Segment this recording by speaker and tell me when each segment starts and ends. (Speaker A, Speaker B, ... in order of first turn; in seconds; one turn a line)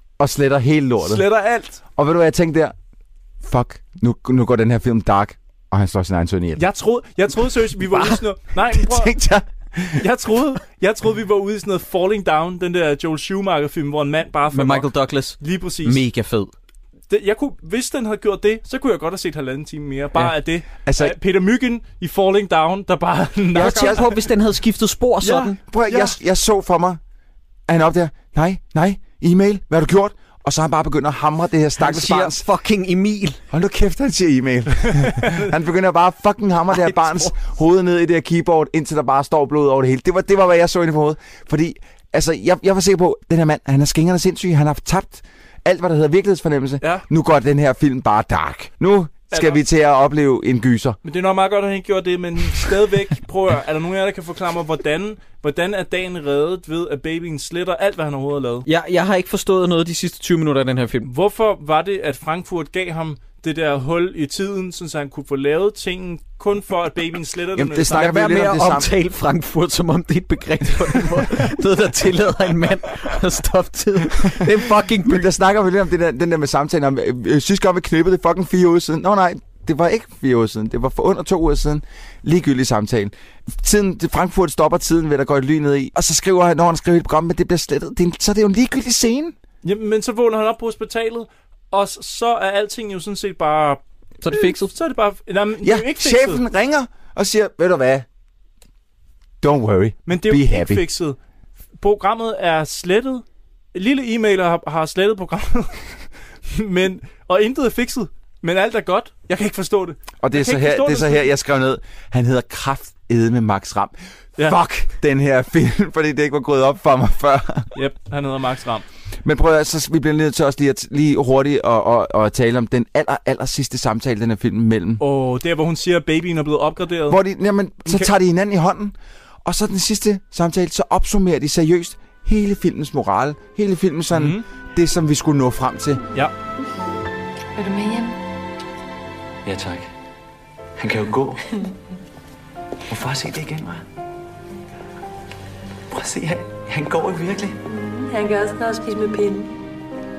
Speaker A: 0.2-1.2
Speaker B: 1.0-1.8
Speaker A: 2.0-2.7
Speaker A: 3.4-6.6
Speaker B: 6.6-9.1
Speaker A: 8.6-10.0
Speaker B: 10.0-16.0
Speaker C: 14.5-16.5
Speaker B: 17.1-24.1
Speaker A: 20.9-21.1
Speaker A: 23.5-24.2
Speaker C: 23.5-25.6
Speaker B: 25.2-26.1
Speaker A: 25.6-27.0
Speaker A: 27.7-32.5
Speaker C: 31.8-33.4
Speaker A: 33.5-51.0
Speaker C: 36.7-37.3
Speaker B: 49.3-49.6
Speaker B: 51.0-58.7
Speaker C: 58.7-61.1
Speaker B: 61.0-68.2
Speaker A: 67.5-68.9
Speaker C: 67.9-75.3
Speaker A: 74.2-89.4
Speaker B: 89.6-96.4
Speaker C: 94.2-94.7
Speaker A: 95.6-98.1
Speaker A: 99.4-100.8
Speaker B: 100.1-101.2
Speaker B: 101.8-106.0
Speaker B: 106.5-111.3
Speaker A: 110.2-117.7
Speaker B: 117.8-118.9
Speaker A: 119.2-125.0
Speaker B: 125.0-127.2
Speaker A: 127.1-136.0
Speaker B: 127.9-128.1
Speaker B: 134.1-134.4
Speaker D: 137.6-138.2
Speaker E: 139.4-139.9
Speaker E: 140.8-141.4
Speaker E: 142.9-143.8
Speaker E: 145.9-147.6
Speaker D: 147.7-149.5